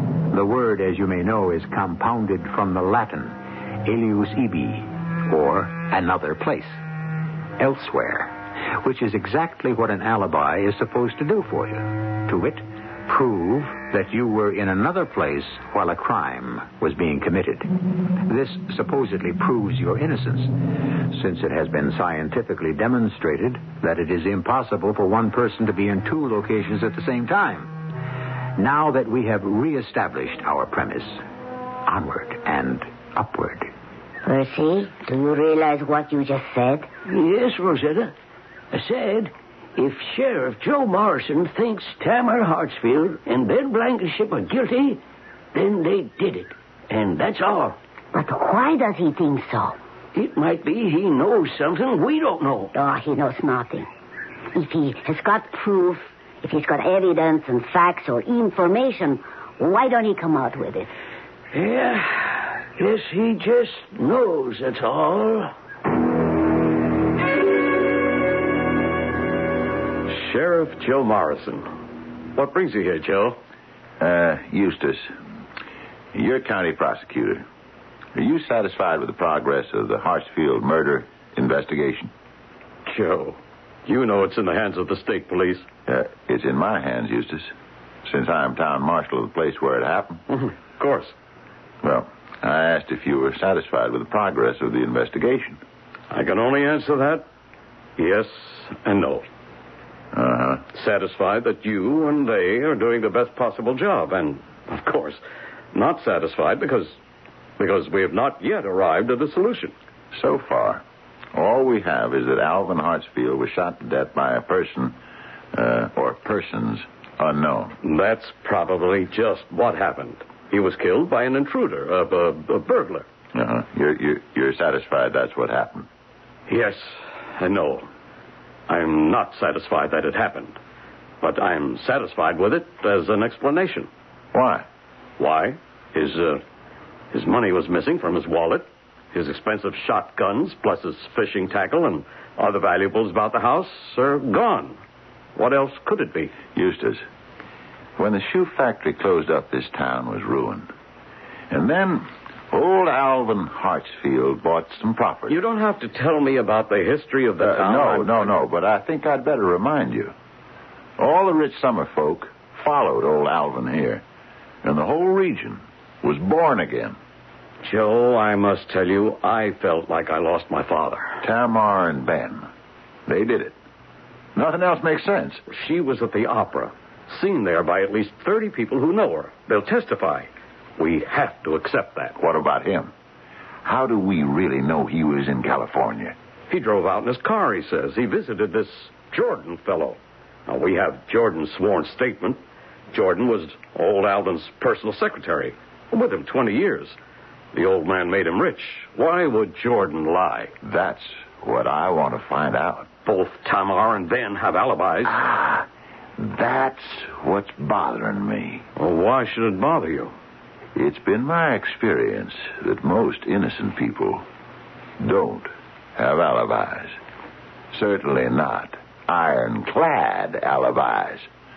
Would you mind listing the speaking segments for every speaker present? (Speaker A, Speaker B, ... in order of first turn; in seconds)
Speaker A: 0.3-6.8, 7.6-27.8, 28.6-31.2, 31.9-33.7
Speaker B: 34.2-36.9, 48.1-49.8, 52.7-53.9, 54.5-60.9
Speaker C: 37.1-38.1, 38.7-45.0, 45.5-47.8, 50.1-52.7, 61.5-65.5
Speaker D: 70.1-71.7, 72.3-73.4, 82.9-85.7, 90.3-91.1, 96.1-97.2, 98.0-99.2, 100.7-105.2, 105.7-107.0, 107.6-109.7, 117.8-123.1, 126.5-127.9, 128.7-130.6, 131.2-133.9, 135.2-136.4, 137.1-144.8, 145.4-146.3, 155.3-158.3, 167.6-171.2, 175.5-182.2, 186.5-192.4, 192.9-197.0, 197.5-200.5, 203.1-205.2, 208.8-210.1
Speaker E: 74.0-75.1, 76.1-77.4, 78.2-82.1, 85.9-87.5, 88.1-90.2, 91.8-95.6, 100.1-100.7, 110.1-110.8, 111.3-115.0, 115.5-117.8, 123.3-125.9, 134.3-134.7, 146.5-147.0, 148.0-150.7, 151.5-155.4, 157.4-160.1, 161.0-164.0, 164.6-167.0, 171.2-172.5, 173.1-173.6, 174.3-175.4, 182.2-182.9, 183.6-186.2, 200.6-202.9, 205.1-205.7, 206.2-208.6, 210.8-214.2, 215.0-216.9, 217.7-221.3